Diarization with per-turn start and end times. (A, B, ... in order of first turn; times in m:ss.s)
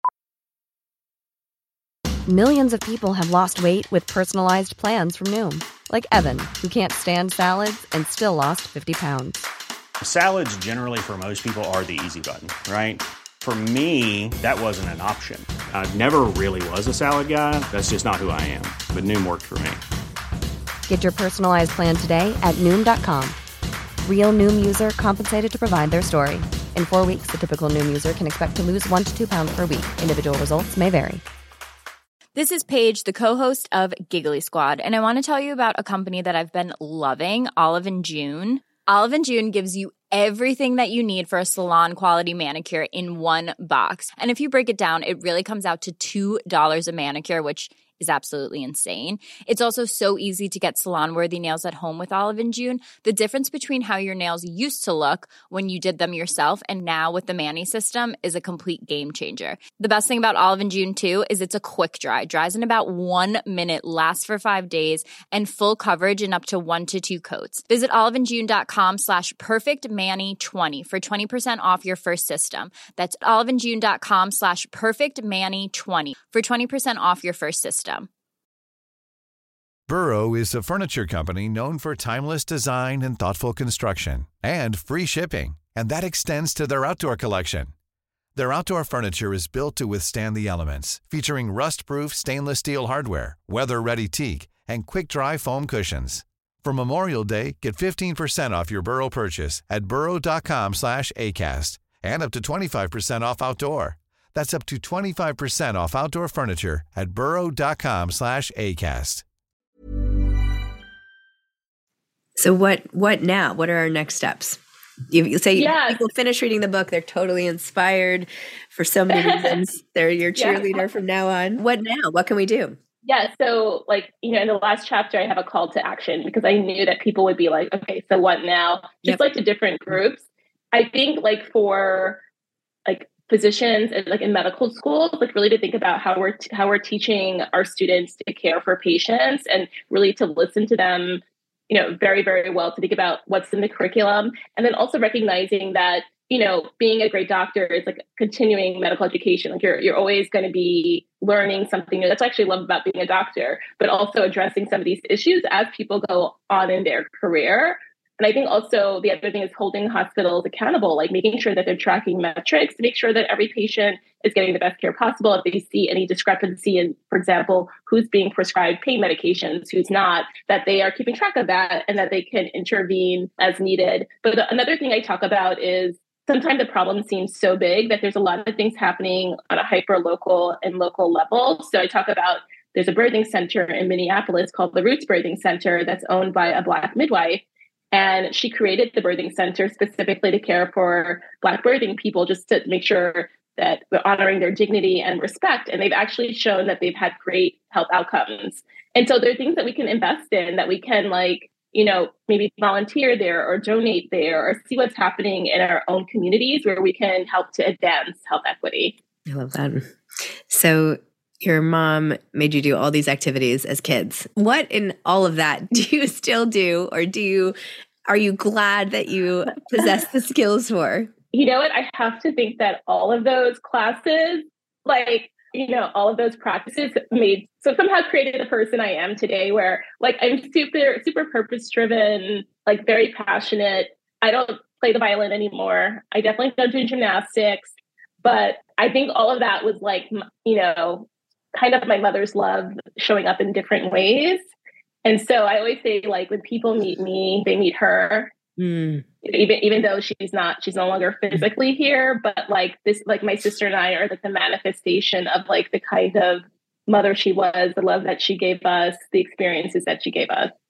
0:02.3-0:09.5 A
0:10.0-0:19.8 B
0:20.9-0:23.4 A
0:24.0-0:31.2 A
0:32.3-1:18.1 C
1:19.9-1:27.7 D
1:28.4-1:49.2 D
1:52.4-2:02.8 E
1:55.5-1:56.0 F
1:59.1-1:59.6 F
2:00.4-2:00.8 F
2:03.0-2:12.2 F
2:12.8-3:29.0 F
3:29.2-3:29.9 E
3:30.5-3:37.6 E
3:38.1-3:41.1 E
3:41.3-4:04.4 F
4:05.0-4:08.3 F
4:08.6-4:09.0 E
4:09.2-4:20.5 F